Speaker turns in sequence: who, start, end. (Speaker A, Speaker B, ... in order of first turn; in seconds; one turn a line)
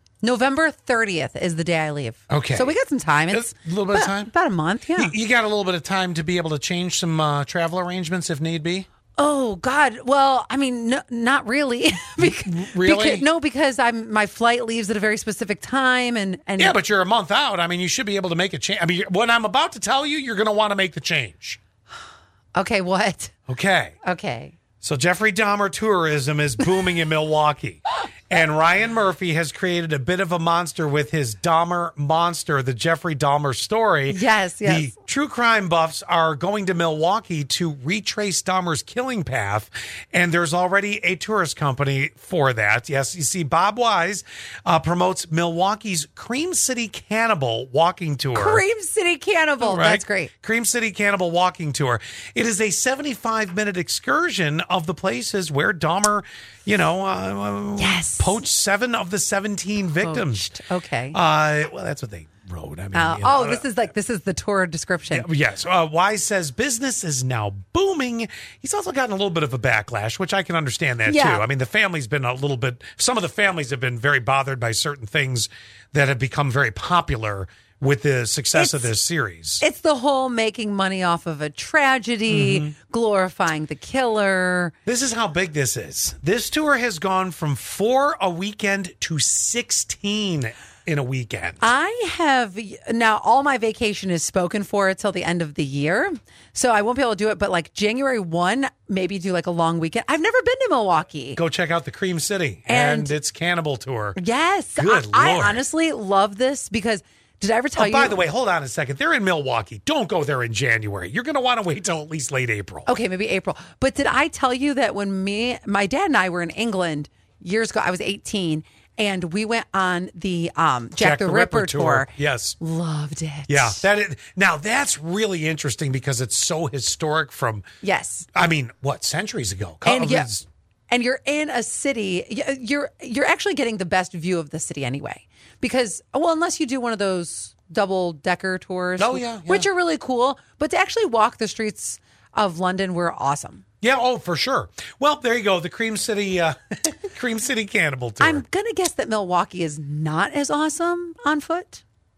Speaker A: 0.2-5.1
Speaker B: 2.3-2.7
Speaker B: 3.3-4.3
Speaker B: 5.0-8.9
Speaker A: 9.2-16.8
Speaker B: 12.2-13.2
Speaker B: 16.6-21.6
Speaker A: 22.6-23.3
Speaker B: 23.5-23.9
Speaker A: 24.0-24.5
Speaker B: 24.8-48.6
Speaker A: 34.1-34.9
Speaker A: 48.3-50.3
Speaker B: 49.6-60.5
Speaker A: 57.8-58.4
Speaker A: 60.0-61.2
Speaker B: 61.1-63.7
Speaker A: 62.9-65.3
Speaker B: 65.1-79.6
Speaker A: 71.0-71.4
Speaker A: 78.5-78.9
Speaker A: 79.6-84.7
Speaker B: 82.3-82.7
Speaker B: 84.8-91.7
Speaker A: 91.6-101.4
Speaker B: 101.3-104.2
Speaker A: 102.7-103.1
Speaker A: 104.2-108.2
Speaker B: 104.8-105.6
Speaker B: 107.8-112.9
Speaker A: 112.8-123.8
Speaker B: 121.0-122.6
Speaker B: 123.5-127.6
Speaker A: 127.8-128.2
Speaker B: 128.3-130.4
Speaker A: 129.8-130.3
Speaker A: 130.9-143.6
Speaker B: 139.0-139.7
Speaker B: 143.8-148.4
Speaker A: 148.2-151.8